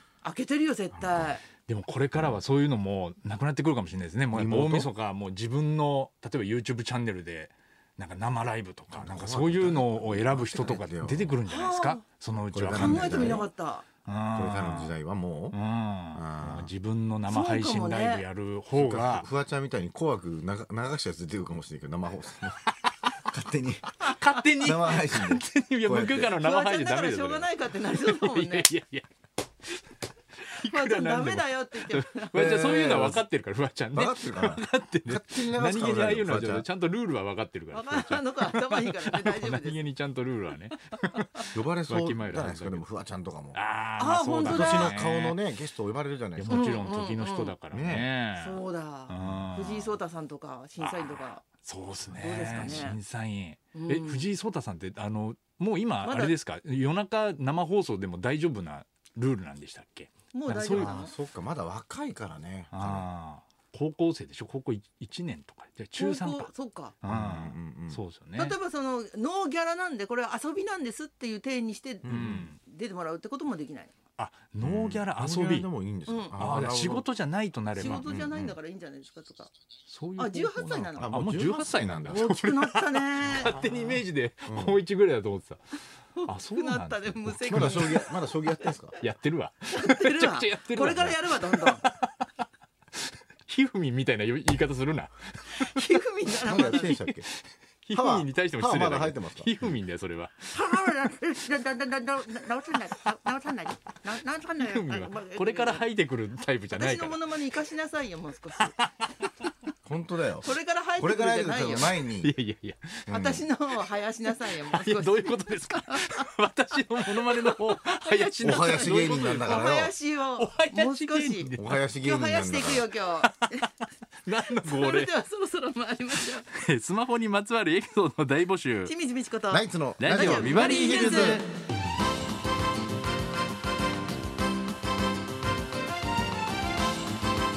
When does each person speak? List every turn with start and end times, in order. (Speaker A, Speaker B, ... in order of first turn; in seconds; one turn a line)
Speaker A: 0.2-1.4
Speaker B: 0.9-1.3
Speaker C: 1.6-13.5
Speaker B: 4.3-4.9
Speaker B: 8.9-11.4
Speaker A: 11.4-12.0
Speaker B: 12.5-13.5
Speaker A: 12.7-13.8
Speaker C: 14.0-14.9
Speaker B: 14.3-15.6
Speaker C: 15.5-19.3
Speaker B: 16.1-16.7
Speaker A: 17.3-18.2
Speaker B: 18.7-26.3
Speaker C: 24.0-29.1
Speaker A: 26.3-28.7
Speaker C: 30.4-42.9
Speaker A: 30.4-32.5
Speaker B: 32.3-33.2
Speaker B: 33.9-36.6
Speaker A: 37.7-39.8
Speaker B: 41.5-43.6
Speaker C: 43.5-45.4
Speaker A: 44.0-45.0
Speaker B: 44.4-46.7
Speaker C: 46.4-50.0
Speaker A: 46.5-47.5
Speaker B: 47.7-48.1
Speaker A: 48.4-51.4
Speaker C: 50.8-61.0
Speaker A: 52.1-53.0
Speaker B: 52.4-52.9
Speaker A: 53.7-54.3
Speaker A: 56.0-56.4
Speaker A: 60.3-61.1
Speaker B: 60.7-63.1
Speaker C: 62.7-66.5
Speaker A: 66.0-66.9
Speaker C: 67.0-68.6
Speaker B: 67.0-68.0
Speaker A: 68.3-73.9
Speaker B: 72.0-72.5
Speaker C: 72.0-72.6
Speaker C: 74.2-75.7
Speaker B: 74.6-77.1
Speaker A: 76.1-76.4
Speaker C: 76.3-78.1
Speaker A: 77.7-79.5
Speaker B: 78.0-78.6
Speaker C: 79.9-85.6
Speaker A: 80.2-81.1
Speaker B: 81.0-82.2
Speaker A: 82.1-83.5
Speaker B: 84.5-84.8
Speaker A: 86.2-88.1
Speaker C: 86.2-88.1
Speaker B: 87.5-89.0
Speaker C: 89.0-92.3
Speaker A: 89.7-91.9
Speaker C: 93.5-100.7
Speaker A: 95.5-96.9
Speaker B: 96.4-97.3
Speaker B: 97.9-99.5
Speaker A: 100.5-105.9
Speaker C: 104.5-107.2
Speaker A: 106.7-108.7
Speaker B: 109.8-112.3
Speaker A: 110.4-112.0
Speaker C: 112.2-113.1
Speaker B: 113.1-113.5
Speaker A: 113.1-116.3
Speaker C: 113.7-119.8
Speaker A: 117.1-123.7
Speaker B: 118.4-119.9
Speaker C: 120.4-121.8
Speaker B: 121.6-122.9
Speaker C: 123.2-123.5
Speaker C: 124.2-125.1
Speaker A: 124.6-126.5
Speaker C: 126.2-128.9
Speaker A: 128.8-131.5
Speaker B: 129.5-131.4
Speaker C: 130.0-131.4